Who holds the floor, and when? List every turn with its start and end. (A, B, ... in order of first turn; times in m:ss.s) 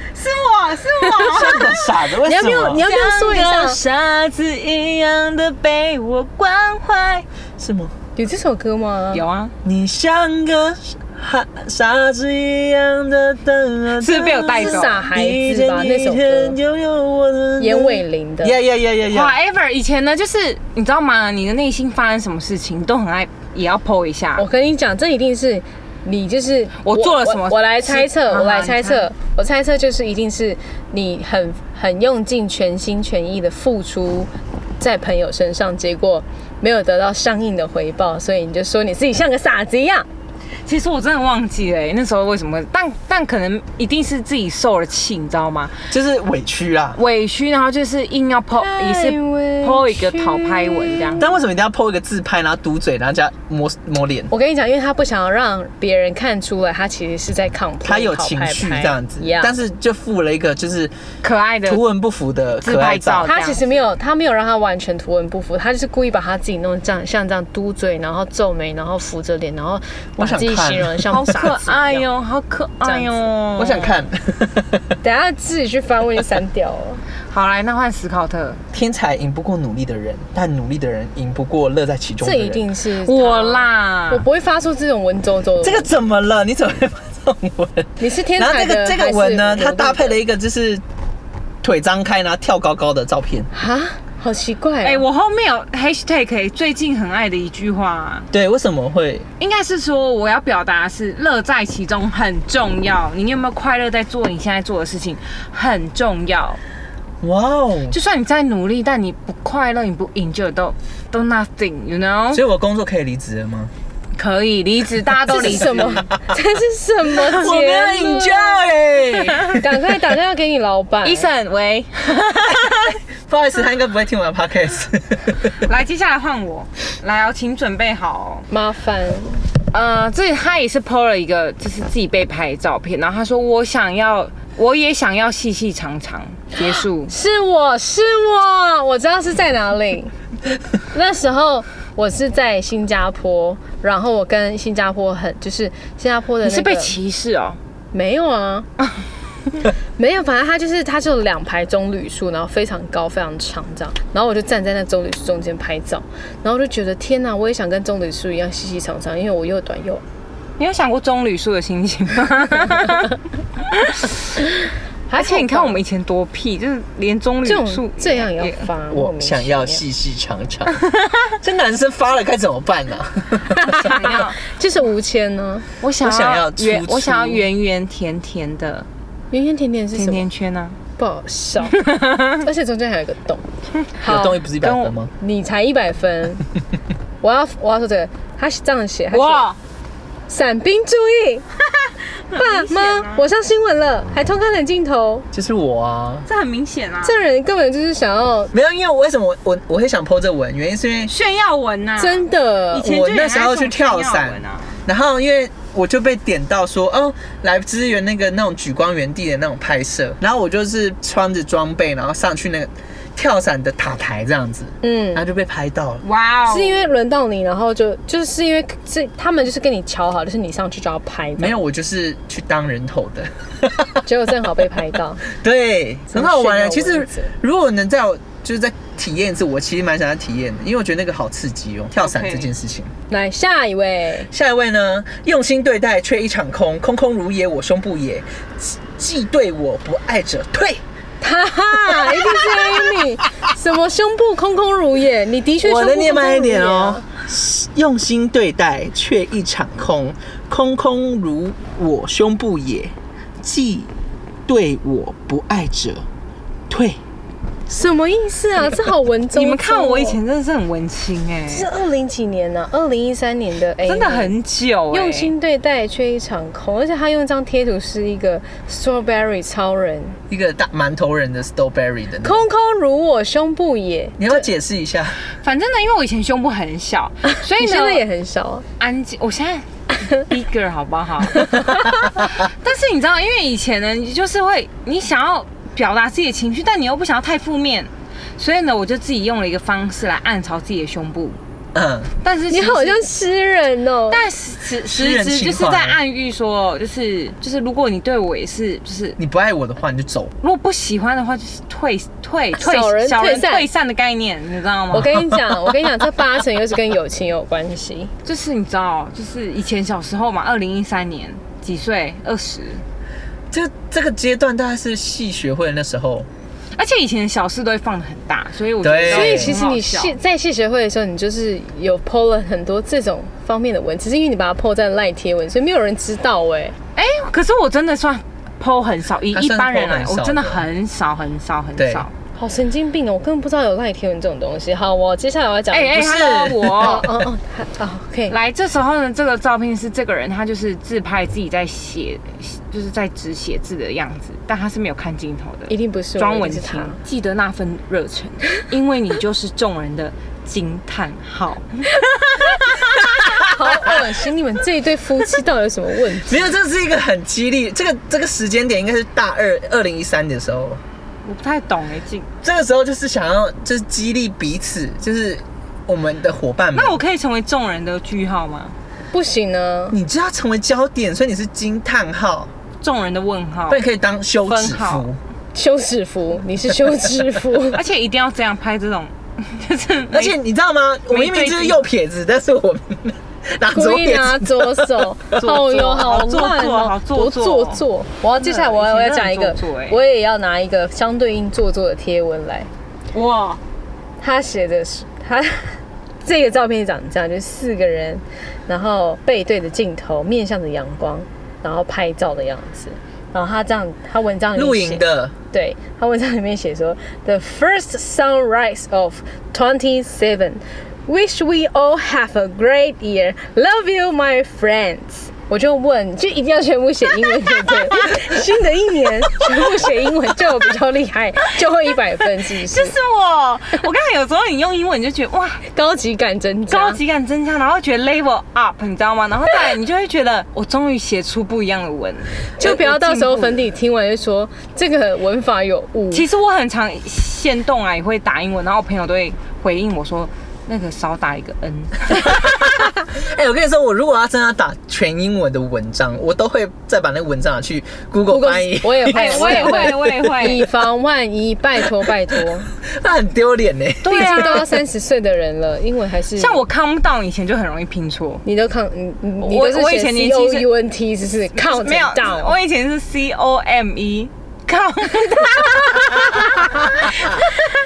0:00.1-0:01.9 A
0:01.0-0:01.6 B
0:01.3-0:02.8 C
0:02.2-0:03.8 B
0:02.8-0:07.3 A
0:07.6-0:08.0 C
0:08.2-0:09.2 B
0:09.1-0:09.5 A
0:09.6-0:19.3 C
0:14.0-0:15.1 A
0:14.3-0:16.6 B
0:17.6-0:18.6 B
0:19.1-0:24.5 A
0:24.4-0:40.1 B
0:26.8-0:29.1 A
0:40.6-0:45.8 A
0:45.9-0:47.0 C
0:47.0-0:51.2 A
0:48.6-0:51.4 B
0:51.2-0:54.3 C
0:54.3-0:59.5 B
0:57.8-1:00.9 C
1:01.2-1:01.8 A
1:01.7-1:03.3 C
1:02.6-1:03.8 A
1:03.2-1:12.1 B
1:10.2-1:11.1 C
1:11.1-1:14.1 A
1:12.8-1:13.2 B
1:13.6-1:14.8 C
1:15.0-1:17.0 B
1:17.3-1:18.6 A
1:18.7-1:22.6 C
1:22.2-1:25.9 B
1:23.0-1:24.3 A
1:25.6-1:30.8 C
1:28.0-1:30.2 B
1:31.6-1:33.5 C
1:33.5-1:35.0 B
1:34.8-1:38.3 A
1:38.3-1:39.3 C
1:39.4-1:46.6 A
1:47.2-1:48.0 C
1:47.9-1:52.4 A
1:52.3-1:53.7 C
1:54.2-1:56.1 A
1:55.3-1:58.6 B
1:55.6-1:56.1 C
1:57.1-1:59.6 C
1:59.5-2:01.3 B
2:01.0-2:03.0 A
2:03.3-2:05.5 C
2:05.6-2:08.5 A
2:08.5-2:09.4 B
2:09.7-2:17.2 A
2:16.6-2:20.1 B
2:20.9-2:27.0 B
2:26.4-2:27.6 A
2:27.9-2:28.7 B
2:30.0-2:40.0 B
2:40.6-2:44.2 A
2:45.1-2:45.8 B
2:45.2-2:48.7 A
2:47.4-2:49.8 B
2:48.9-2:50.8 C
2:51.4-2:53.9 C
2:53.6-2:55.7 B
2:53.7-2:54.4 A
2:55.8-2:58.9 A
2:56.0-2:57.4 C
2:59.3-3:00.3 B
2:59.9-3:00.8 A
3:01.0-3:03.4 B
3:01.7-3:02.4 A
3:04.0-3:04.4 B
3:04.0-3:05.1 C
3:04.6-3:04.9 A
3:05.2-3:06.4 B
3:07.2-3:09.5 B
3:09.1-3:09.6 A
3:10.3-3:11.4 B
3:11.7-3:13.3 A
3:12.3-3:15.3 B
3:15.3-3:16.3 C
3:16.3-3:17.2 A
3:17.0-3:18.5 B
3:18.5-3:21.1 C
3:21.1-3:24.8 A
3:22.0-3:22.9 B
3:22.8-3:36.0 C
3:34.8-3:35.2 B
3:36.0-3:36.9 A
3:36.5-3:41.6 B
3:41.4-3:44.0 C
3:44.0-3:45.2 B
3:45.3-3:52.9 C
3:46.1-3:47.3 B
3:52.0-3:52.5 A
3:53.1-3:54.3 B
3:54.3-4:00.8 C
4:01.2-4:07.1 B
4:02.0-4:02.7 C
4:05.6-4:13.9 C
4:14.5-4:16.1 C
4:16.7-4:17.0 C
4:17.7-4:20.2 B
4:19.3-4:21.7 A
4:21.5-4:24.3 B
4:23.8-4:25.3 A
4:24.9-4:30.2 B
4:30.3-4:32.4 C
4:32.2-4:34.5 B
4:34.2-4:35.2 C
4:35.4-4:38.0 A
4:37.6-4:38.6 B
4:38.8-4:51.4 A
4:51.8-4:52.1 C
4:52.2-4:53.0 A
4:52.5-4:54.2 B
4:54.1-4:59.2 A
4:54.9-4:56.0 C
4:59.2-5:00.3 C
5:00.4-5:05.2 A
5:02.6-5:03.7 B
5:04.9-5:08.1 B
5:08.2-5:12.8 A
5:13.5-5:16.3 C
5:16.8-5:20.2 A
5:18.8-5:19.5 C
5:19.1-5:26.8 B
5:27.0-5:32.1 A
5:29.3-5:30.6 C
5:31.8-5:32.1 C
5:32.4-5:38.4 B
5:35.7-5:37.1 A
5:35.9-5:37.0 C
5:38.3-5:52.6 A
5:45.7-5:47.0 B
5:53.4-5:56.5 B
5:56.3-6:00.8 C
6:01.2-6:02.3 A
6:02.4-6:07.0 C
6:06.7-6:08.8 A
6:09.1-6:10.0 B
6:09.9-6:12.5 C
6:12.8-6:13.8 A
6:13.7-6:15.2 C
6:14.4-6:15.1 A
6:15.5-6:17.8 B
6:17.7-6:20.4 A
6:20.1-6:25.1 C
6:21.1-6:21.8 A
6:23.7-6:32.7 B
6:25.4-6:27.8 A
6:28.4-6:30.0 A
6:33.1-6:33.6 A
6:34.2-7:03.0 B
6:44.6-6:45.3 C
7:02.6-7:05.6 A
7:05.7-7:07.0 B
7:06.7-7:13.6 A
7:12.6-7:16.3 B
7:16.1-7:22.4 A
7:22.3-7:30.2 C
7:28.3-7:32.7 B
7:29.1-7:30.6 A
7:32.8-7:34.6 C
7:34.0-7:34.8 A
7:34.1-7:36.6 B
7:36.4-7:38.4 A
7:38.4-7:42.6 B
7:39.4-7:40.7 A
7:41.6-7:47.2 A
7:45.9-7:46.8 B